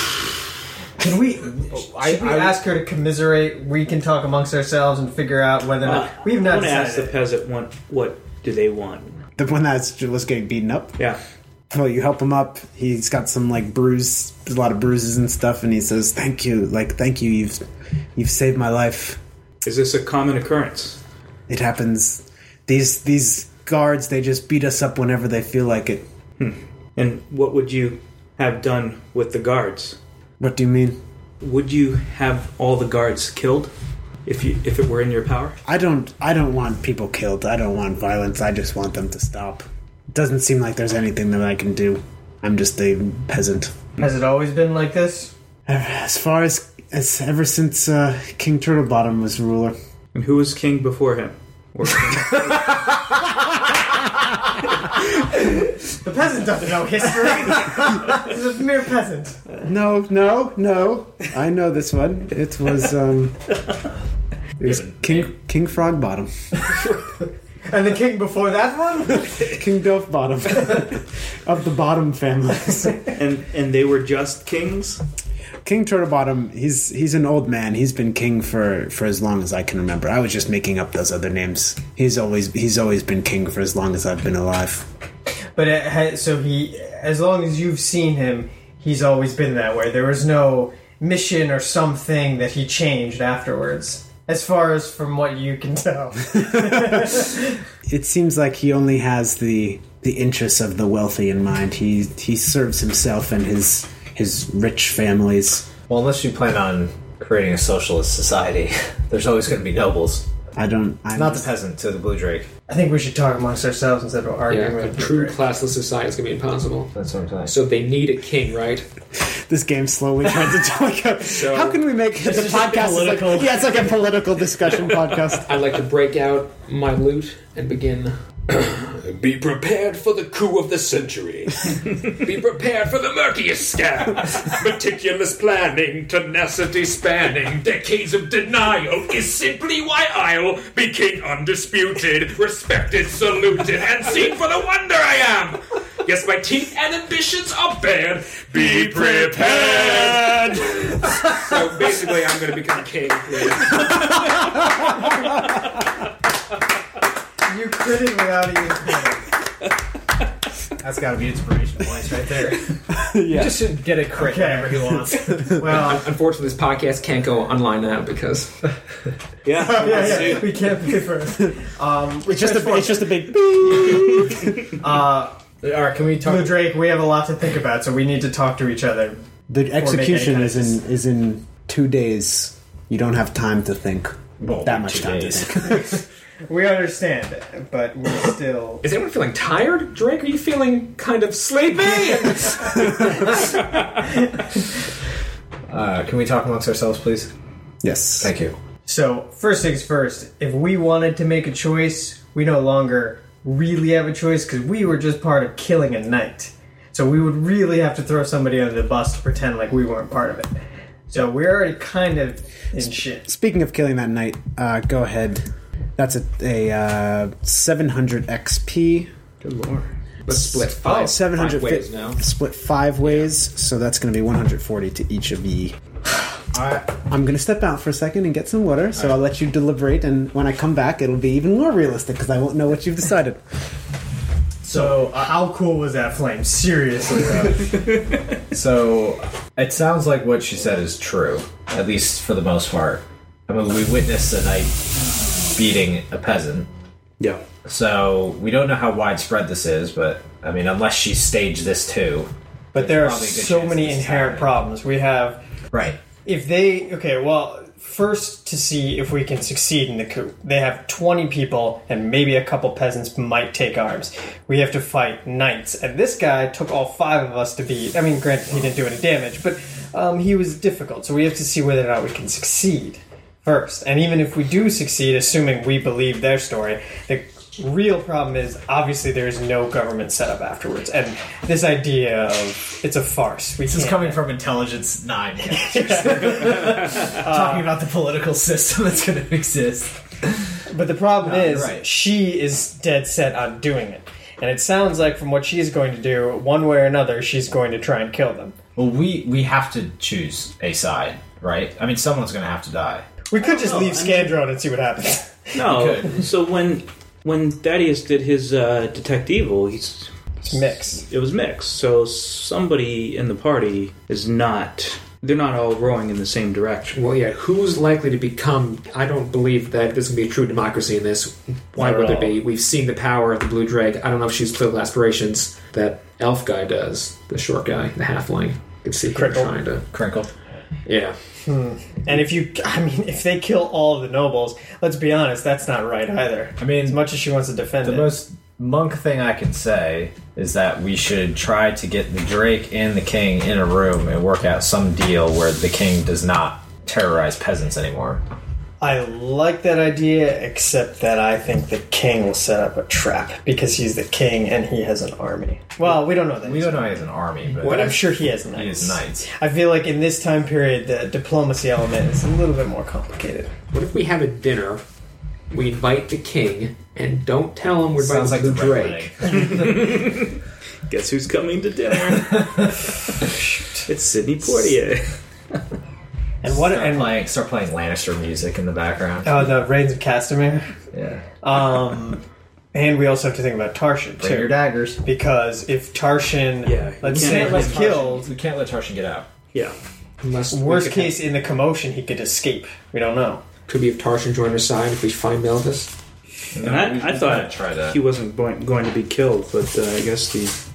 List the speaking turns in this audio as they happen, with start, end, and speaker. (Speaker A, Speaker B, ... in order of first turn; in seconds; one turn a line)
Speaker A: 1.0-7.2
Speaker B: 1.6-2.6
Speaker C: 5.8-9.1
Speaker D: 9.4-11.0
Speaker D: 11.7-17.6
Speaker D: 18.2-19.2
Speaker C: 19.6-21.0
Speaker D: 21.5-26.1
Speaker C: 26.4-30.0
Speaker D: 30.4-31.0
Speaker C: 31.4-33.7
Speaker C: 34.2-35.6
Speaker D: 35.6-43.8
Speaker A: 44.0-45.3
Speaker D: 45.7-49.8
Speaker C: 50.1-52.9
Speaker A: 55.9-59.4
Speaker D: 59.6-63.5
Speaker D: 64.6-66.3
Speaker B: 64.7-65.2
Speaker A: 67.7-69.4
Speaker D: 69.1-73.1
Speaker C: 73.1-75.0
Speaker D: 75.6-84.9
Speaker A: 85.6-97.6
Speaker D: 96.3-97.2
Speaker D: 97.9-105.7
Speaker B: 105.9-110.2
Speaker D: 110.6-111.5
Speaker B: 111.1-112.5
Speaker A: 112.7-115.4
Speaker E: 114.5-116.9
Speaker B: 117.0-117.5
Speaker E: 117.5-118.9
Speaker D: 119.3-125.5
Speaker E: 121.2-122.6
Speaker A: 122.3-123.3
Speaker E: 125.5-154.2
Speaker D: 148.9-150.4
Speaker A: 157.5-159.3
Speaker B: 160.8-162.6
Speaker D: 162.9-163.7
Speaker B: 163.3-165.6
Speaker A: 164.1-166.1
Speaker E: 165.5-168.5
Speaker C: 169.4-170.7
Speaker A: 169.6-175.4
Speaker D: 172.2-174.5
Speaker B: 175.6-176.7
Speaker A: 176.2-179.2
Speaker D: 179.5-186.0
Speaker A: 179.8-180.8
Speaker B: 184.4-186.0
Speaker A: 186.5-188.8
Speaker E: 188.8-193.6
Speaker A: 192.0-193.3
Speaker A: 194.0-194.6
Speaker B: 195.7-197.3
Speaker D: 197.8-198.3
Speaker B: 198.2-198.6
Speaker A: 198.9-210.5
Speaker A: 211.1-213.3
Speaker D: 213.2-215.4
Speaker D: 216.0-219.1
Speaker C: 219.4-219.9
Speaker E: 220.3-222.2
Speaker D: 220.3-225.8
Speaker A: 220.8-221.1
Speaker B: 226.5-227.0
Speaker D: 226.9-233.4
Speaker B: 234.6-235.3
Speaker A: 234.7-237.8
Speaker B: 238.5-244.7
Speaker B: 245.6-246.7
Speaker B: 247.7-254.6
Speaker A: 252.7-255.4
Speaker B: 255.7-256.0
Speaker A: 256.2-284.2
Speaker B: 283.6-290.6
Speaker A: 285.4-287.8
Speaker A: 290.7-298.6
Speaker B: 291.2-291.8
Speaker B: 298.8-303.1
Speaker A: 303.3-305.6
Speaker C: 303.4-304.3
Speaker C: 305.6-317.0
Speaker B: 305.6-306.2
Speaker A: 310.4-311.0
Speaker E: 316.9-329.9
Speaker A: 321.8-322.3
Speaker A: 329.1-329.5
Speaker B: 329.9-330.3
Speaker E: 330.9-331.2
Speaker A: 331.5-338.2
Speaker B: 336.6-337.0
Speaker B: 337.8-348.2
Speaker A: 348.8-357.1
Speaker B: 355.8-359.3
Speaker A: 357.6-363.5
Speaker E: 363.7-364.8
Speaker E: 365.5-369.1
Speaker B: 368.0-369.6
Speaker C: 369.3-370.3
Speaker C: 370.9-373.3
Speaker A: 373.3-373.8
Speaker C: 373.9-375.2
Speaker A: 376.4-377.2
Speaker B: 376.5-379.3
Speaker A: 379.2-380.7
Speaker B: 380.9-381.3
Speaker A: 381.4-382.2
Speaker A: 382.7-388.3
Speaker B: 384.2-384.8
Speaker C: 386.6-387.9
Speaker B: 387.1-389.3
Speaker E: 390.2-391.2
Speaker A: 390.5-393.4
Speaker E: 393.7-395.9
Speaker B: 396.5-398.0
Speaker C: 396.6-400.6